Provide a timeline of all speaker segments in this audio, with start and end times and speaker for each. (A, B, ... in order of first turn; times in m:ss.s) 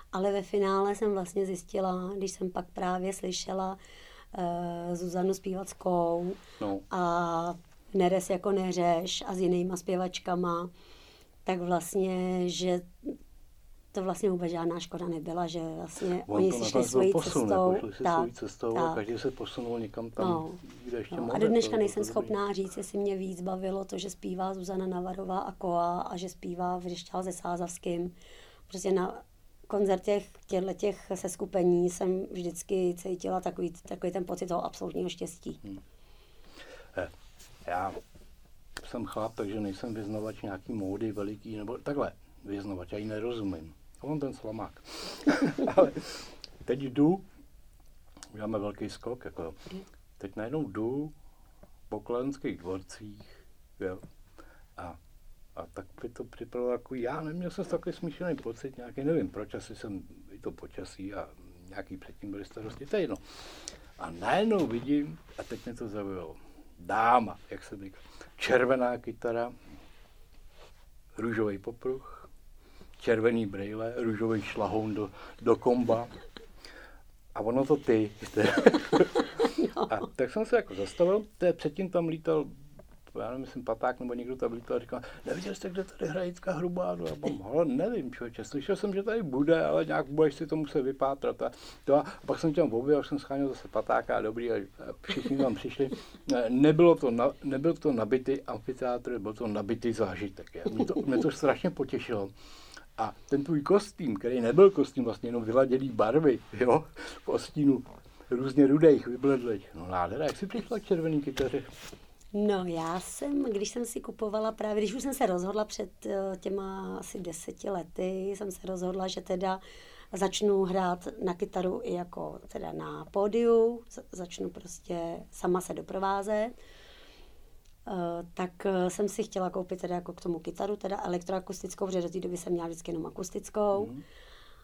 0:00.1-0:03.8 A
0:04.3-0:10.7 A
0:06.6-0:06.8 B
0:11.5-0:13.1 A
0:13.9-0:19.0 A
0:16.3-0:22.3 B
0:20.2-0:28.1 A
0:28.7-0:35.6 A
0:37.6-0:38.0 B
0:38.8-0:47.2 B
0:48.3-0:51.1 B
0:51.9-0:54.1 B
0:55.6-1:03.2 B
1:04.0-1:09.6 B
1:11.2-1:12.3 B
1:13.0-1:16.1 B
1:17.4-1:19.3 B
1:19.4-1:20.0 A
1:19.9-1:22.5 B
1:23.1-1:42.3 B
1:43.0-1:51.7 B
1:52.3-1:59.6 A
2:00.1-2:06.5 A
2:07.9-2:13.9 A
2:13.7-2:14.0 B